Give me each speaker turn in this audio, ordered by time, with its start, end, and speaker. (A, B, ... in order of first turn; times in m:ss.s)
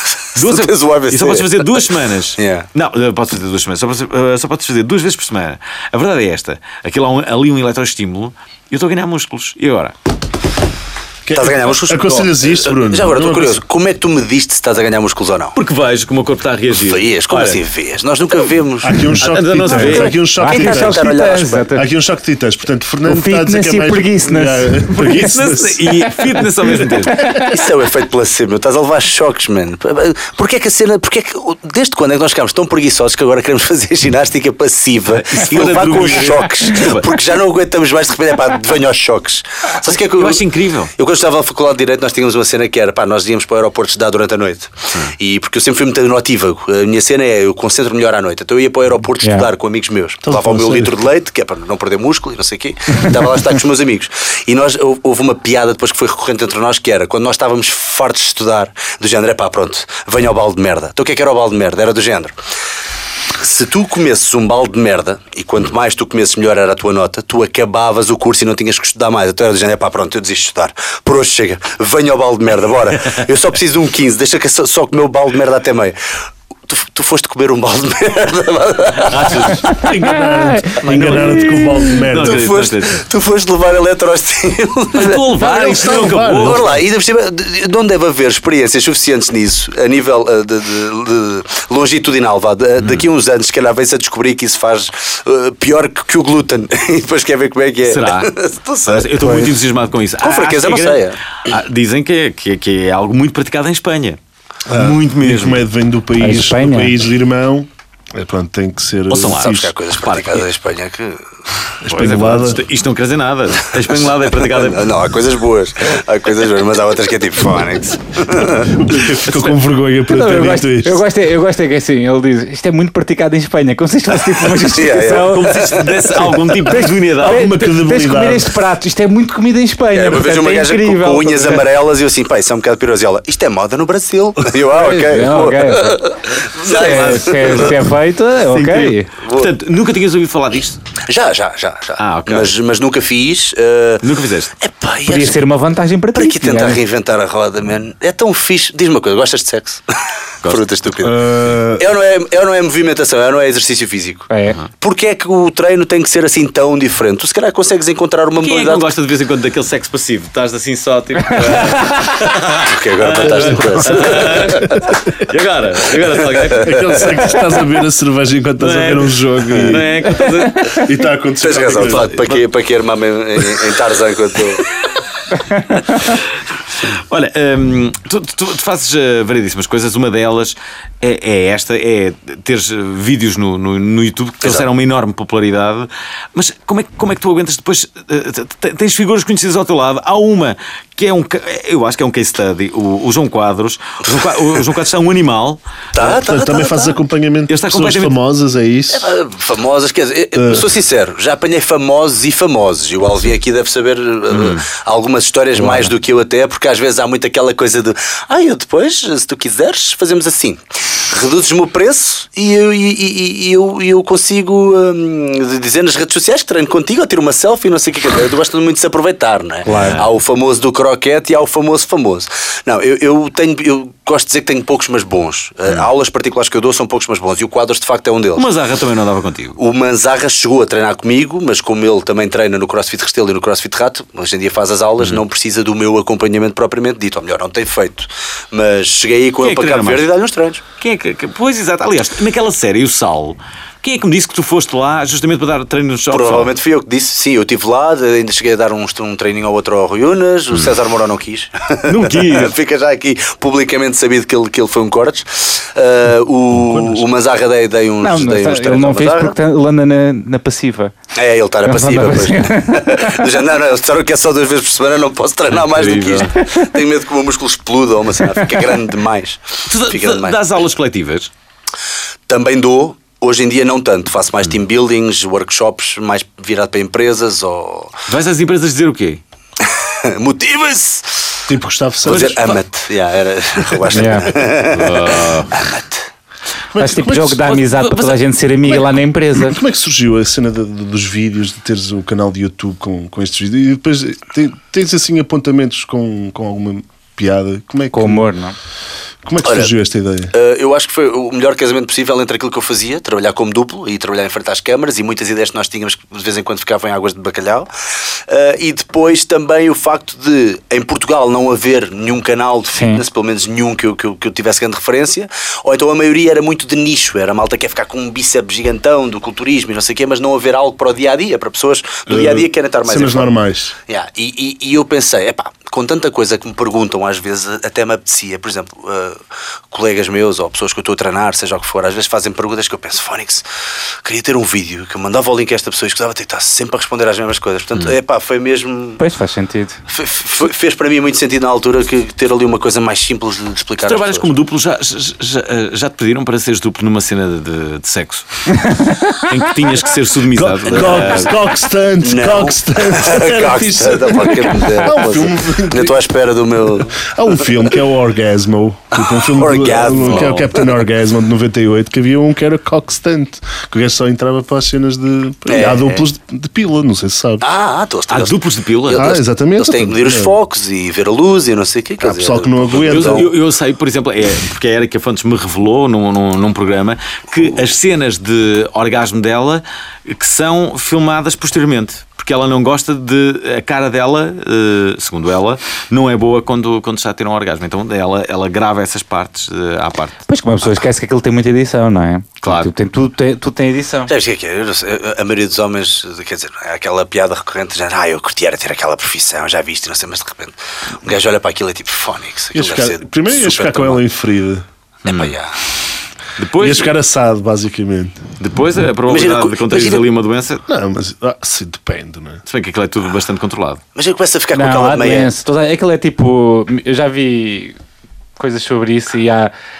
0:00.3-0:09.9 A
0:00.4-0:02.7 B
0:11.2-0:13.6 C
0:11.3-0:15.5 B
0:15.6-0:17.6 A
0:16.8-0:19.2 B
0:18.8-0:21.1 C
0:19.2-0:20.1 A
0:19.7-0:21.9 D
0:20.4-0:21.7 B
0:21.8-0:26.9 C
0:23.0-0:25.2 D
0:24.9-0:27.2 A
0:26.9-0:27.6 D
0:27.4-1:02.4 B
0:35.0-0:37.1 A
0:39.9-0:40.9 A
0:49.2-0:49.5 D
0:50.2-0:51.0 C
1:03.3-1:16.0 B
1:16.7-1:19.6 B
1:19.0-1:19.8 A
1:19.7-1:22.5 C
1:19.8-1:21.9 D
1:20.8-1:23.0 A
1:22.1-1:39.5 B
1:24.9-1:26.6 A
1:25.4-1:26.8 C
1:32.8-1:33.0 A
1:37.8-1:38.3 A
1:38.8-1:44.2 A
1:40.2-1:41.2 B
1:44.7-1:49.7 C
1:44.7-1:45.7 A
1:46.2-1:47.0 D
1:49.1-1:50.5 A
1:49.4-1:51.2 B
1:51.8-1:52.6 C
1:51.9-1:54.9 A
1:54.3-1:59.0 B
1:58.6-2:01.0 C
2:00.1-2:05.7 D
2:04.6-2:06.4 B
2:05.1-2:07.6 A
2:06.6-2:11.6 D
2:07.2-2:08.5 C
2:09.9-2:17.8 B
2:14.7-2:16.0 D
2:16.6-2:19.1 D
2:16.7-2:17.8 A
2:18.5-2:20.8 A
2:19.2-2:19.5 B
2:21.1-2:24.1 B
2:22.0-2:22.6 A
2:24.0-2:24.5 A
2:24.6-2:25.4 B
2:25.1-2:26.8 D
2:26.1-2:29.8 B
2:30.4-2:31.2 B
2:31.0-2:31.9 C
2:31.8-2:38.9 B
2:34.3-2:34.6 D
2:38.4-2:47.3 A
2:41.3-2:42.1 D
2:42.6-2:44.9 B
2:43.4-2:44.6 C
2:46.5-2:47.0 B
2:46.6-2:49.9 C
2:48.6-2:50.8 A
2:50.0-2:50.8 D
2:50.7-2:52.2 C
2:51.4-2:54.6 B
2:51.5-2:52.4 A
2:55.7-2:56.3 A
2:56.8-3:15.6 A
3:15.9-3:17.0 B
3:16.0-3:19.1 C
3:17.5-3:18.2 A
3:18.9-3:48.4 B
3:20.3-3:20.7 C
3:24.3-3:24.6 A
3:25.6-3:25.9 D
3:39.7-3:40.0 D
3:39.7-3:40.1 A
3:48.3-3:49.6 A
3:49.6-4:00.6 B
3:59.4-4:00.1 A
4:00.8-4:06.5 A
4:06.1-4:19.4 B
4:11.8-4:12.5 A
4:16.6-4:17.0 C
4:18.0-4:20.9 D
4:21.2-4:30.4 B
4:21.6-4:23.1 D
4:25.5-4:26.5 A
4:29.7-4:31.3 A
4:32.3-4:38.0 B
4:38.1-4:39.2 A
4:39.6-4:41.5 B
4:41.5-4:42.5 C
4:42.0-4:46.1 B
4:42.0-4:42.6 A
4:43.9-4:44.3 D
4:44.6-4:45.5 A
4:46.7-4:47.4 C
4:46.8-4:49.6 D
4:47.4-4:48.2 A
4:48.7-4:58.2 C
4:57.9-4:58.5 D
4:59.2-5:00.3 C
4:59.4-4:59.7 B
5:00.3-5:23.3 B
5:12.7-5:13.0 D
5:22.1-5:23.7 C
5:23.9-5:33.4 B
5:34.0-5:39.0 B
5:39.0-5:39.8 D
5:39.9-5:44.3 B
5:43.9-5:48.4 A
5:48.6-5:49.3 D
5:49.2-5:51.3 A
5:50.3-5:56.0 C
5:50.7-5:51.0 B
5:52.0-5:57.0 B
5:56.8-6:07.4 C
5:59.0-6:00.6 B
6:00.0-6:00.5 A
6:05.5-6:06.0 B
6:07.4-6:13.3 B
6:08.1-6:09.1 A
6:08.9-6:10.4 C
6:12.0-6:13.3 C
6:12.7-6:30.2 A
6:30.3-6:34.1 D
6:32.4-6:32.7 A
6:34.1-6:44.0 B
6:42.5-6:44.6 C
6:45.0-6:45.3 A
6:45.0-6:45.6 B
6:46.4-6:46.9 A
6:46.6-6:48.2 C
6:48.4-6:50.6 A
6:49.1-6:50.0 B
6:50.7-6:52.4 C
6:52.5-6:53.8 A
6:53.9-6:55.3 B
6:54.5-6:57.8 D
6:58.4-6:59.5 D